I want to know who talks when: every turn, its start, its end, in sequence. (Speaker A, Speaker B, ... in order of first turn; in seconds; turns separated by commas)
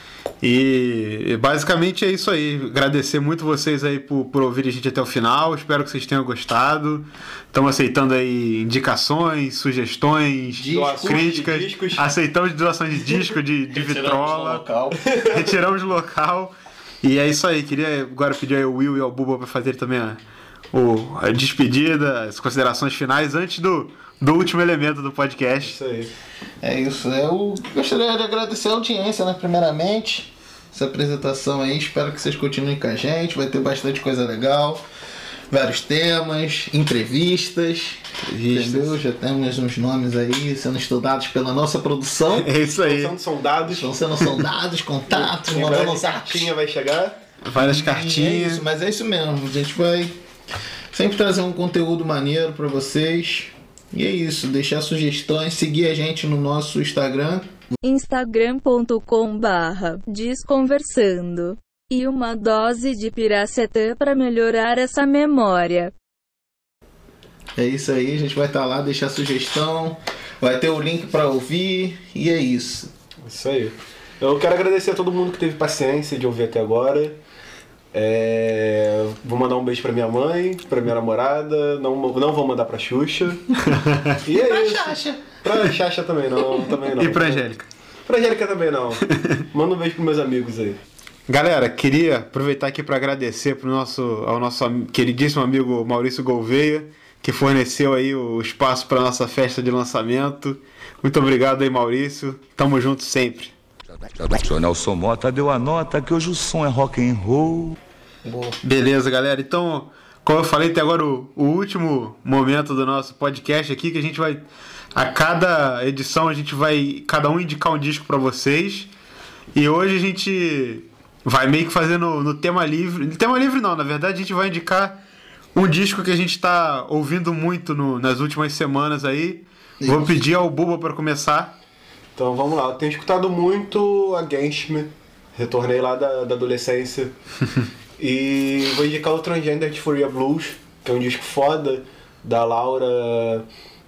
Speaker A: 0.4-14.7, Speaker B: 10.5-11.2, Speaker C: 10.7-12.1, Speaker B: 13.7-15.1, Speaker C: 15.0-15.5, Speaker A: 15.3-20.2, Speaker A: 20.7-25.8, Speaker C: 25.6-26.1, Speaker B: 26.6-34.8, Speaker B: 35.5-42.5, Speaker A: 38.2-39.0, Speaker A: 42.3-43.2, Speaker C: 42.7-44.0, Speaker B: 43.6-46.5, Speaker C: 45.1-47.2, Speaker A: 47.4-48.6, Speaker B: 47.5-50.2, Speaker B: 50.9-57.5, Speaker D: 57.8-65.9, Speaker B: 67.6-72.9, Speaker C: 73.2-77.2, Speaker C: 77.9-83.5, Speaker A: 83.7-84.2, Speaker C: 84.2-87.5, Speaker B: 84.3-85.3, Speaker A: 86.8-87.7, Speaker C: 88.1-90.8, Speaker A: 89.2-89.4, Speaker A: 91.3-103.5, Speaker E: 104.2-107.8, Speaker B: 108.2-108.6, Speaker A: 108.6-118.9, Speaker A: 119.5-125.0, Speaker A: 125.5-131.5, Speaker B: 129.8-130.2, Speaker C: 132.2-137.1, Speaker C: 138.0-143.4